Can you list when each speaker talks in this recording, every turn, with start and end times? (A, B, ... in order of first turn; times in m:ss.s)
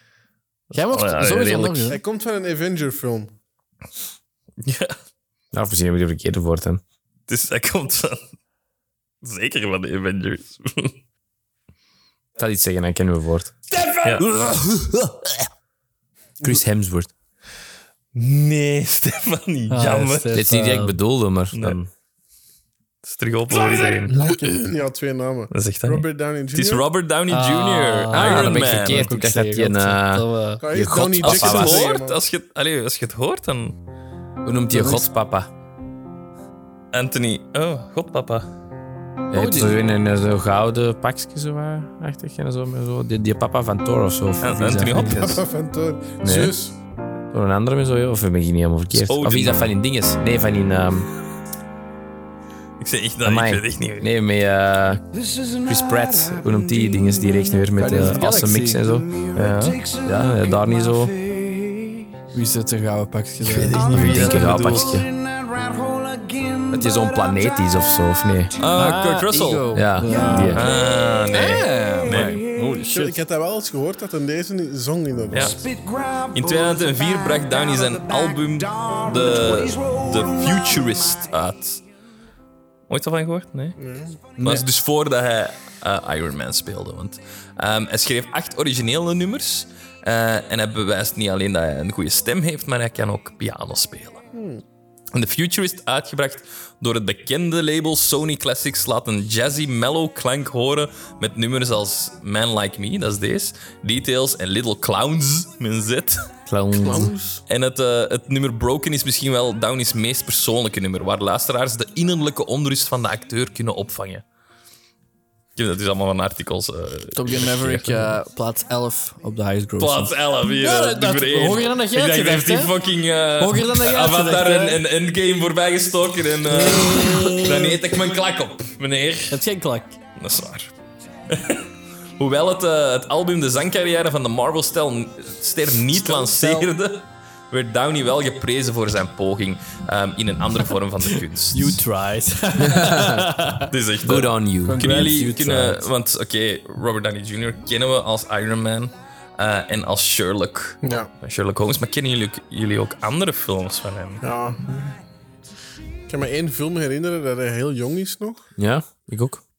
0:00.7-0:01.9 A
0:00.7-0:02.0 B
0:01.9-0:03.3 C
0:04.6-0:05.0 A
0:05.5-0:06.8 D
0:07.3-0:08.2 A
0:09.2-0:11.0 A
0:12.4-0:13.5 D
0:13.9-0:15.4 B
0:16.4-0:17.1 D
0:18.1-0:20.4 A
0:19.7-0:21.0 B
0:20.3-0:21.9 D
0:21.5-0:21.8 A
0:23.0-0:24.2 A
0:24.1-0:26.8 C
0:25.5-0:29.1 A
0:27.3-0:30.6 B
0:28.1-0:31.9 D
0:30.6-0:32.2 C
0:31.2-0:33.8 A
0:34.4-0:35.5 D
0:34.7-0:35.1 B
0:36.9-0:38.5 A
0:39.3-0:45.4 D
0:39.3-0:39.8 B
0:44.4-0:45.4 A
0:45.2-0:46.8 C
0:46.2-0:46.5 D
0:47.3-0:51.1 D
0:48.9-0:49.7 A
0:52.8-0:54.1 A
0:53.2-0:55.0 D
0:55.1-0:58.1 E
0:55.7-0:59.1 D
0:57.8-0:58.8 B
0:58.8-1:02.1 E
0:59.4-0:59.8 A
1:00.0-1:01.1 D
1:02.3-1:04.2 B
1:03.4-1:05.0 A
1:03.7-1:08.8 E
1:03.9-1:05.1 D
1:06.7-1:08.5 D
1:08.6-1:09.9 A
1:08.8-1:10.7 B
1:09.7-1:10.7 D
1:10.0-1:13.0 E
1:10.5-1:12.4 A
1:11.3-1:13.2 B
1:12.8-1:15.6 C
1:15.3-1:15.6 A
1:15.4-1:21.6 E
1:16.3-1:21.8 A
1:22.9-1:23.8 A
1:23.8-1:24.2 C
1:24.4-1:24.7 B
1:24.4-1:34.2 A
1:34.3-1:34.6 C
1:35.1-1:46.2 A
1:46.5-1:47.1 D
1:46.8-1:47.4 C
1:47.5-1:54.2 A
1:55.6-1:58.1 A
1:57.2-2:02.7 B
1:59.8-2:09.4 A
2:03.4-2:04.8 B
2:06.5-2:07.8 B
2:09.3-2:10.0 B
2:10.2-2:10.7 A
2:11.3-2:11.6 A
2:12.2-2:21.8 A
2:16.0-2:16.7 B
2:21.5-2:23.7 B
2:22.6-2:23.2 D
2:23.7-2:34.2 A
2:24.0-2:25.5 D
2:24.6-2:25.8 B
2:30.8-2:31.1 C
2:34.2-2:35.0 C
2:36.1-2:38.4 C
2:38.6-2:39.4 D